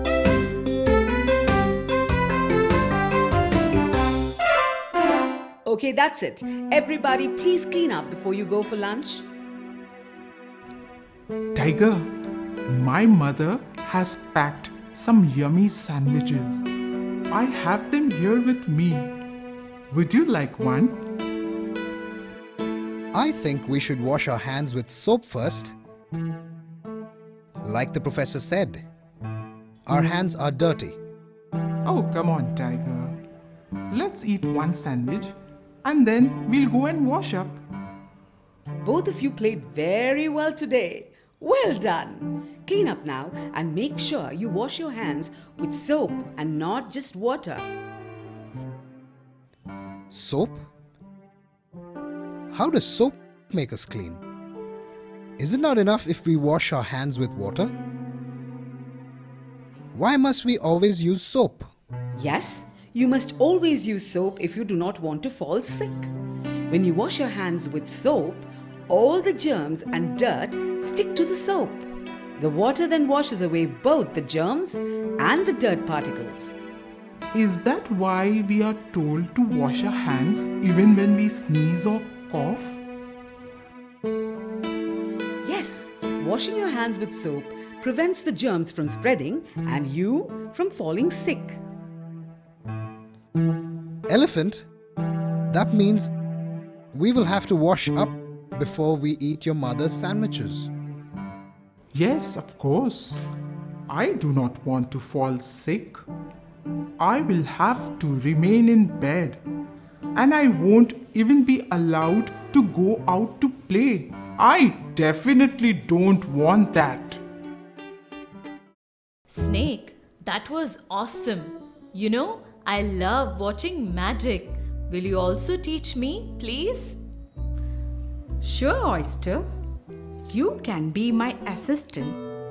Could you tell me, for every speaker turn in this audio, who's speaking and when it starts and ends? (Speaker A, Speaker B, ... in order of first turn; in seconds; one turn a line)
Speaker A: 5.6-9.3
Speaker B: 11.5-12.1
Speaker B: 12.7-16.6
Speaker B: 17.3-19.2
Speaker B: 19.9-21.0
Speaker C: 23.1-25.8
Speaker C: 27.6-28.8
Speaker C: 29.9-31.0
Speaker B: 31.8-33.2
Speaker B: 33.9-37.6
Speaker A: 38.8-47.7
Speaker C: 50.1-50.6
Speaker C: 52.5-54.2
Speaker C: 55.4-57.7
Speaker C: 59.9-61.7
Speaker A: 62.1-66.1
Speaker A: 66.7-76.5
Speaker B: 77.3-82.8
Speaker A: 85.4-91.6
Speaker C: 94.1-94.7
Speaker C: 95.5-96.1
Speaker C: 96.9-100.7
Speaker B: 101.9-103.3
Speaker B: 103.9-106.0
Speaker B: 107.0-109.4
Speaker B: 110.1-117.2
Speaker D: 119.3-127.0
Speaker E: 128.4-129.2
Speaker E: 130.3-132.1